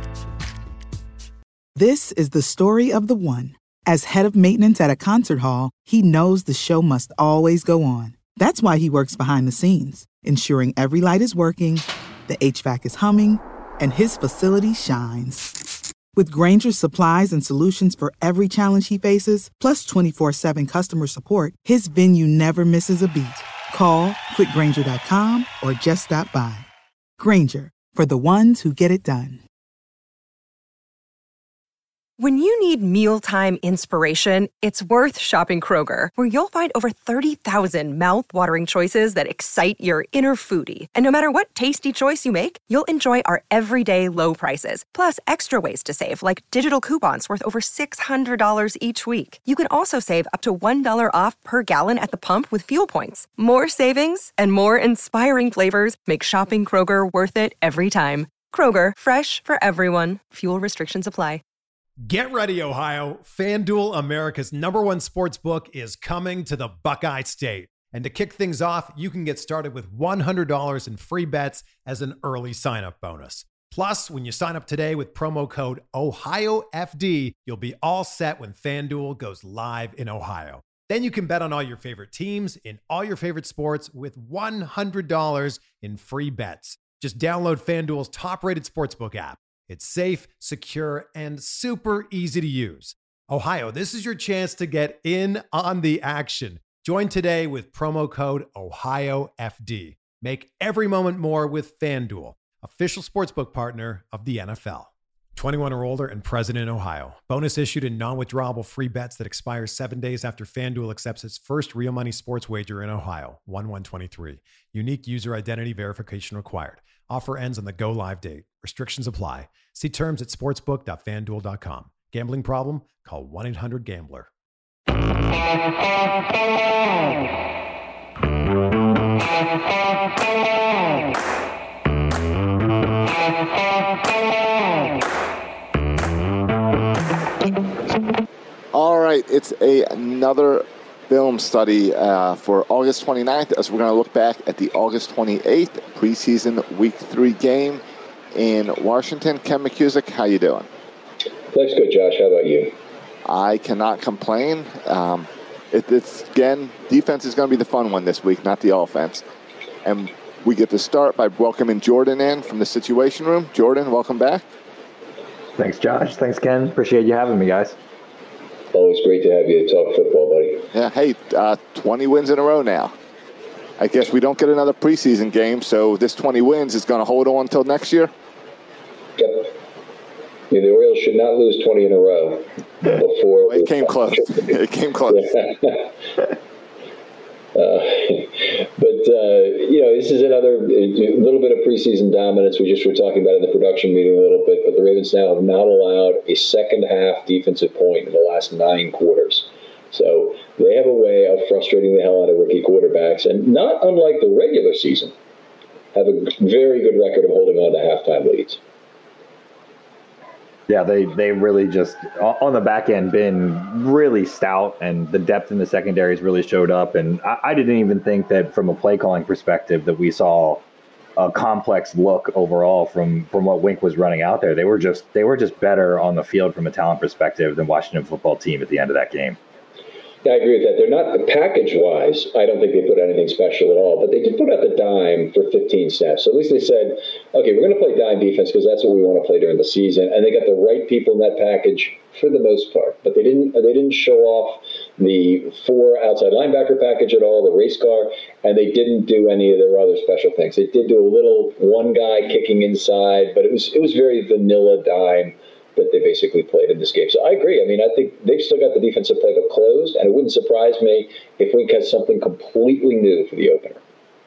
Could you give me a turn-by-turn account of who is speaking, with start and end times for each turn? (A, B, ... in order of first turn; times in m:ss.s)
0:01.7-0:15.6 A
0:16.1-0:26.7 A
0:27.2-0:29.4 A
0:32.2-1:01.4 B
1:02.0-2:04.3 C
2:18.7-2:27.8 D
2:28.3-2:30.7 D
2:31.5-2:32.7 E
2:33.2-2:39.2 D
2:39.8-2:44.4 D
2:45.6-2:47.8 F
2:48.7-2:50.6 E
2:50.7-2:52.9 D
2:53.8-2:58.1 D
2:59.2-2:59.5 E
3:00.5-3:04.6 E
3:03.4-3:05.4 D
3:05.1-3:05.9 E
3:07.6-3:25.1 E
3:25.9-3:28.6 E
3:30.7-3:40.6 F
3:41.2-3:49.4 F
3:50.2-4:23.8 E